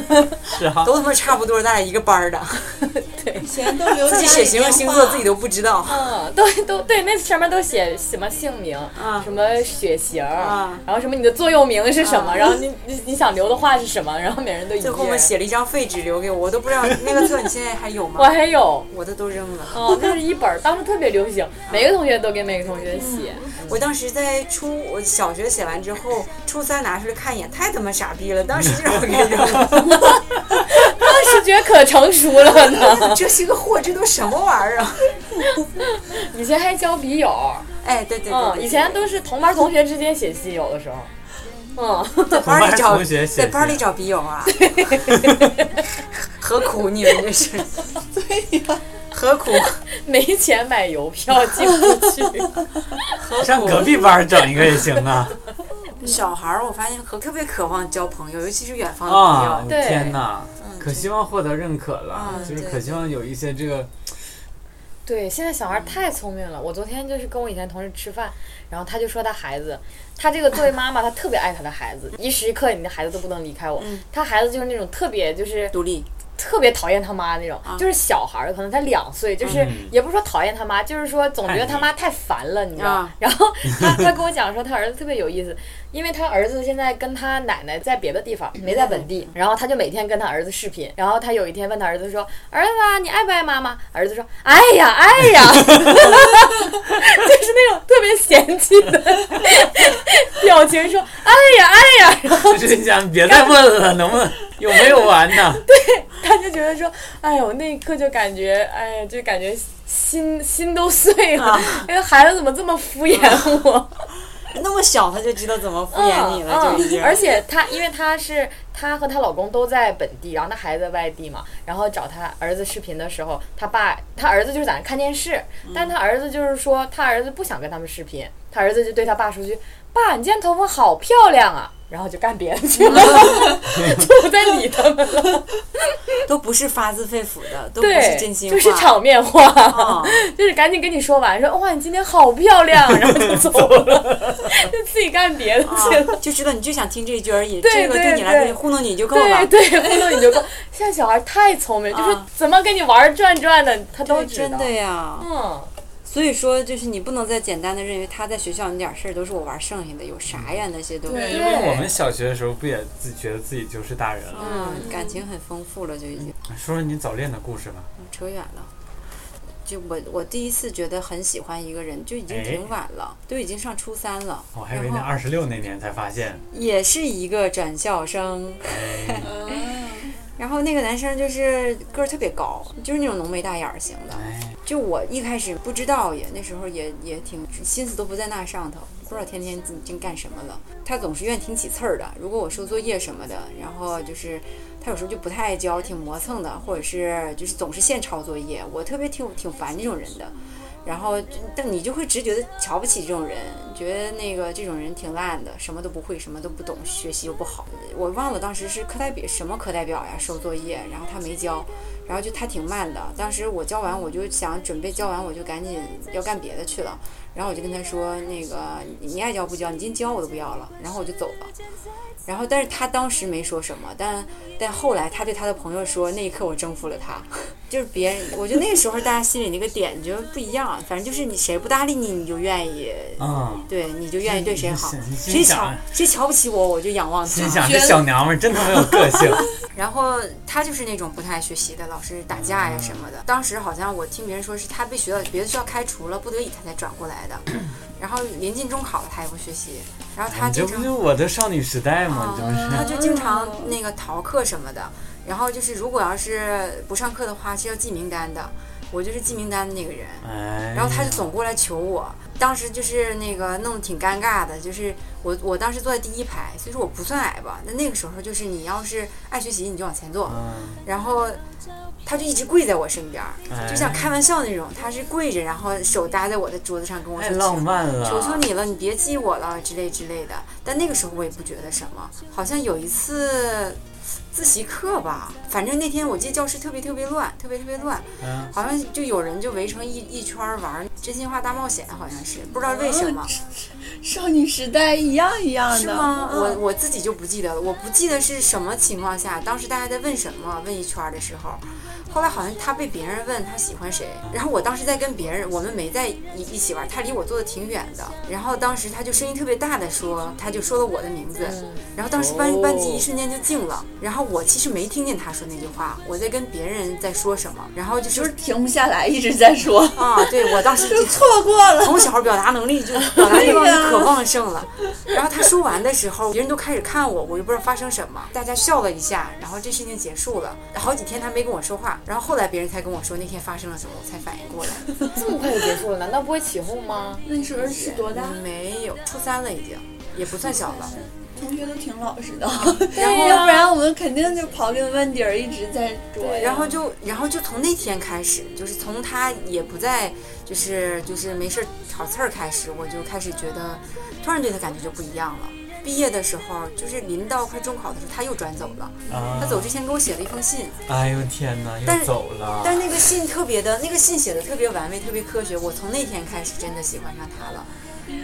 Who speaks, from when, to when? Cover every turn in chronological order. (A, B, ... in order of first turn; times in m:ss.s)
0:00.4-0:00.9 A
0:00.8-0:02.8 B
0:03.0-0:03.4 C
0:03.4-0:05.2 D
0:04.0-0:06.1 B
0:05.9-0:15.3 C
0:08.9-0:09.3 B
0:10.4-0:10.8 B
0:12.0-0:12.6 B
0:14.8-0:18.4 B
0:18.2-0:18.9 C
0:18.9-0:20.1 B
0:19.7-0:23.8 C
0:21.7-0:21.9 B
0:22.9-0:30.1 B
0:30.7-0:33.2 C
0:31.0-0:31.4 B
0:32.4-0:35.2 B
0:35.8-0:37.7 C
0:37.8-0:39.0 B
0:38.3-0:41.1 C
0:41.7-0:42.4 C
0:42.3-0:44.7 B
0:42.4-0:43.8 A
0:44.6-0:45.4 C
0:45.1-0:45.5 A
0:46.2-0:47.8 B
0:48.1-0:48.8 D
0:49.1-0:49.8 B
0:49.9-0:52.5 C
0:53.2-0:54.1 B
0:53.4-0:55.4 A
0:56.0-1:01.1 B
0:59.1-1:04.1 A
0:59.7-1:00.2 C
1:02.1-1:03.1 B
1:02.3-1:02.5 C
1:05.0-1:15.8 C
1:13.8-1:14.0 B
1:15.7-1:16.1 B
1:16.4-1:42.6 C
1:19.4-1:19.9 A
1:21.4-1:21.9 A
1:22.8-1:23.2 B
1:28.6-1:29.2 B
1:42.4-1:45.6 A
1:45.6-1:53.9 C
1:51.4-1:51.9 B
1:54.5-1:57.2 B
1:55.9-2:15.5 C
2:05.6-2:05.9 B
2:12.9-2:13.2 B
2:16.2-2:19.0 B
2:17.8-2:26.2 C
2:19.7-2:20.3 B
2:23.8-2:24.4 A
2:25.6-2:29.5 B
2:27.6-2:35.7 C
2:31.9-2:32.3 B
2:34.0-2:35.3 B
2:36.0-2:41.7 B
2:40.3-2:40.6 A
2:41.0-2:41.9 D
2:41.2-2:44.6 A
2:44.3-2:46.3 B
2:44.5-2:44.8 C
2:44.7-2:45.2 D
2:46.4-2:47.9 A
2:48.0-2:48.7 B
2:49.6-2:55.1 B
2:52.3-2:52.6 A
2:54.5-2:56.4 A
2:56.5-2:59.3 B
2:58.7-2:59.3 A
2:59.2-3:00.1 D
3:00.3-3:41.5 B
3:04.1-3:04.6 A
3:42.2-3:57.7 B
3:53.2-3:53.7 A
3:54.2-3:55.9 A
3:57.3-3:59.5 A
3:57.5-3:58.2 D
3:59.7-4:10.9 B
4:02.3-4:03.0 A
4:10.3-4:12.9 A
4:12.1-4:31.4 B
4:12.5-4:13.7 D
4:20.2-4:21.3 A
4:30.3-4:30.8 A
4:32.0-4:53.3 B
4:33.5-4:34.1 A
4:37.2-4:38.5 A
4:48.2-4:48.5 A
4:52.6-4:56.6 D
4:55.7-5:18.3 B
5:11.4-5:13.0 C
5:18.1-5:22.1 D
5:19.9-5:35.2 B
5:23.1-5:24.2 D
5:35.1-5:37.2 C
5:37.2-5:38.4 D
5:37.6-5:40.9 B
5:40.5-5:46.8 D
5:42.9-5:43.7 B
5:46.2-5:46.5 C
5:46.3-6:00.8 B
5:59.1-5:59.4 D
5:59.1-5:59.7 A
6:00.9-6:03.0 A
6:01.8-6:07.7 B